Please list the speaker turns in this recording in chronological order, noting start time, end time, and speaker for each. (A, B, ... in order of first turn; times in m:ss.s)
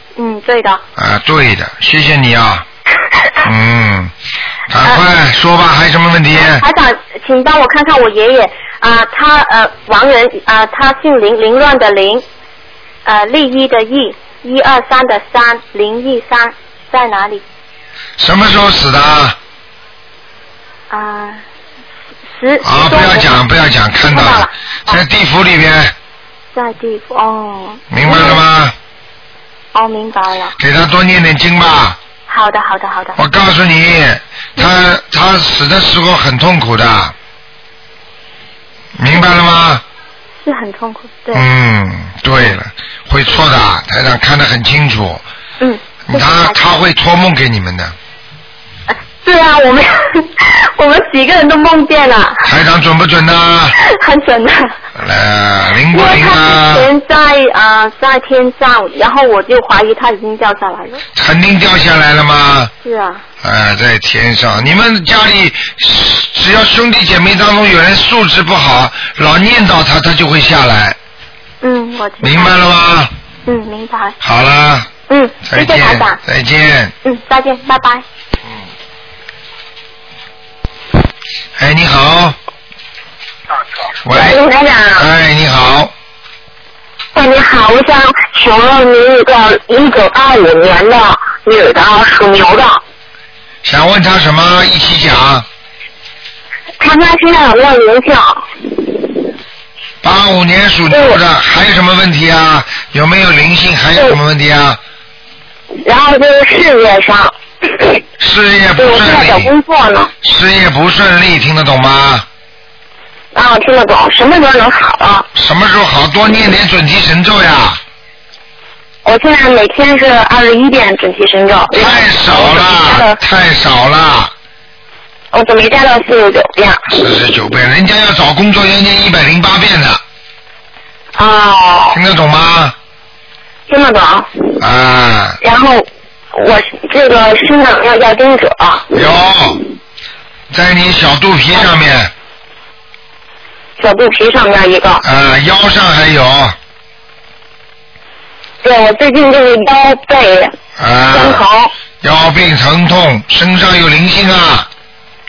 0:00.2-0:00.8 A
0:01.0-0:02.6 B
0:03.4-0:04.1 B
0:04.7-0:06.6 B
0:06.4-0:12.2 A
0:13.0-0:17.4 A
0:18.2-0:19.4 B
0:20.9-0:21.4 A
0:22.3-0:23.4 A
0:22.6-0:25.9 B
0:24.0-0:25.0 A
0:26.5-0:28.4 A
0:27.9-0:28.7 B
0:29.7-0:30.5 A
0:30.6-0:32.0 B
0:32.3-0:33.2 A
0:33.2-0:37.1 B
0:39.0-0:39.8 B
0:40.4-0:41.5 A
0:41.3-0:45.2 B
0:45.6-0:46.6 A
0:46.1-0:47.9 B
0:48.9-0:52.5 A
0:52.4-0:53.8 B
0:53.8-0:54.7 A
0:55.0-0:56.9 B
0:55.9-1:01.0 A
1:01.1-1:02.7 B
1:02.8-1:03.2 A
1:03.4-1:11.0 B
1:11.6-1:12.6 A
1:12.2-1:13.1 B
1:13.4-1:14.2 A
1:14.2-1:14.9 B
1:15.1-1:16.2 A
1:15.4-1:16.9 B
1:17.0-1:18.0 A
1:21.6-1:22.4 B
1:24.0-1:24.4 B
1:24.1-1:25.1 C
1:24.9-1:25.9 B
1:27.1-1:32.8 C
1:33.6-1:35.4 B
1:36.8-1:39.1 C
1:40.0-1:44.8 B
1:40.9-1:41.2 C
1:45.8-1:48.0 C
1:48.2-1:49.5 B
1:48.8-1:50.1 C
1:50.2-1:52.2 B
1:53.3-1:55.3 C
1:55.3-1:57.8 B
1:59.0-2:03.2 C
2:01.7-2:04.3 B
2:05.3-2:06.8 C
2:06.9-2:10.0 B
2:11.1-2:12.0 C
2:11.9-2:12.7 B
2:13.7-2:14.4 C
2:14.6-2:15.4 B
2:15.4-2:19.0 C
2:18.9-2:19.6 B
2:20.5-2:22.1 B
2:23.8-2:25.0 C
2:25.0-2:26.6 B
2:28.6-2:30.5 C
2:30.8-2:31.4 B
2:31.1-2:31.7 C
2:32.0-2:34.7 B